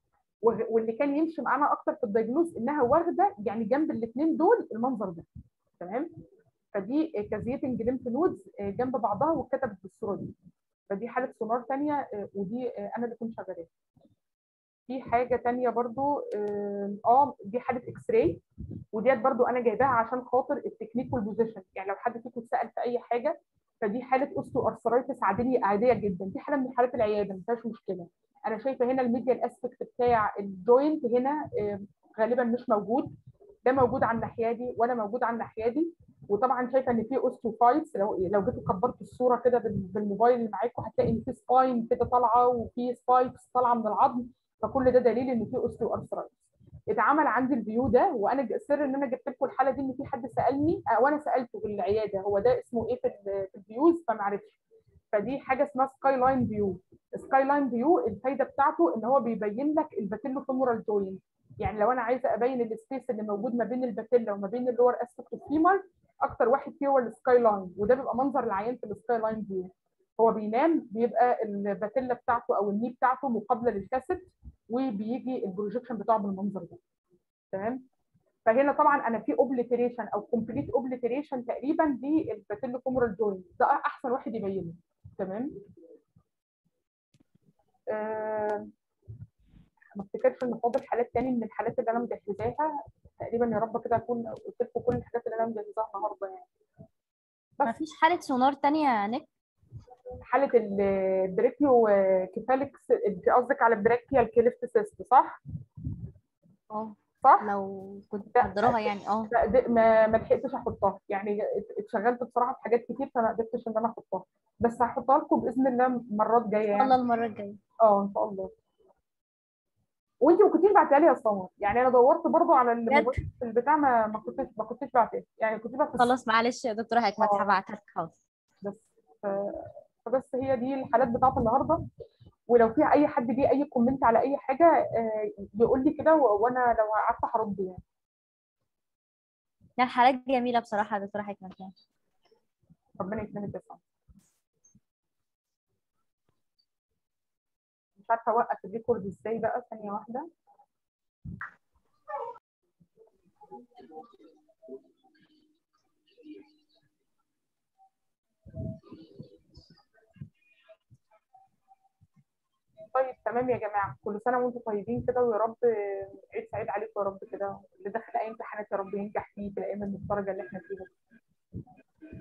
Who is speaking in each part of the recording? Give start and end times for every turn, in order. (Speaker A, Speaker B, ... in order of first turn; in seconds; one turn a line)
Speaker A: 0.4-5.2
Speaker A: 5.8-6.1
Speaker A: 6.7-10.3
Speaker A: 10.9-13.7
Speaker A: 14.9-18.4
Speaker A: 18.9-33.1
Speaker A: 33.6-54.6
Speaker A: 55.1-76.8
Speaker A: 77.5-77.8
Speaker A: 78.5-85.5
Speaker A: 87.9-88.7
Speaker A: 90.0-96.5
Speaker B: 97.6-99.3
Speaker A: 100.3-105.4
Speaker B: 106.7-109.3
Speaker A: 107.2-107.5
Speaker A: 108.3-116.9
Speaker B: 116.7-117.6
Speaker A: 117.8-118.5
Speaker A: 120.2-126.1
Speaker B: 122.9-123.1
Speaker B: 126.0-128.1
Speaker A: 127.2-127.5
Speaker A: 128.6-131.8
Speaker A: 132.5-137.8
Speaker B: 139.8-141.7
Speaker A: 143.0-143.8
Speaker A: 148.0-150.3
Speaker A: 162.9-170.9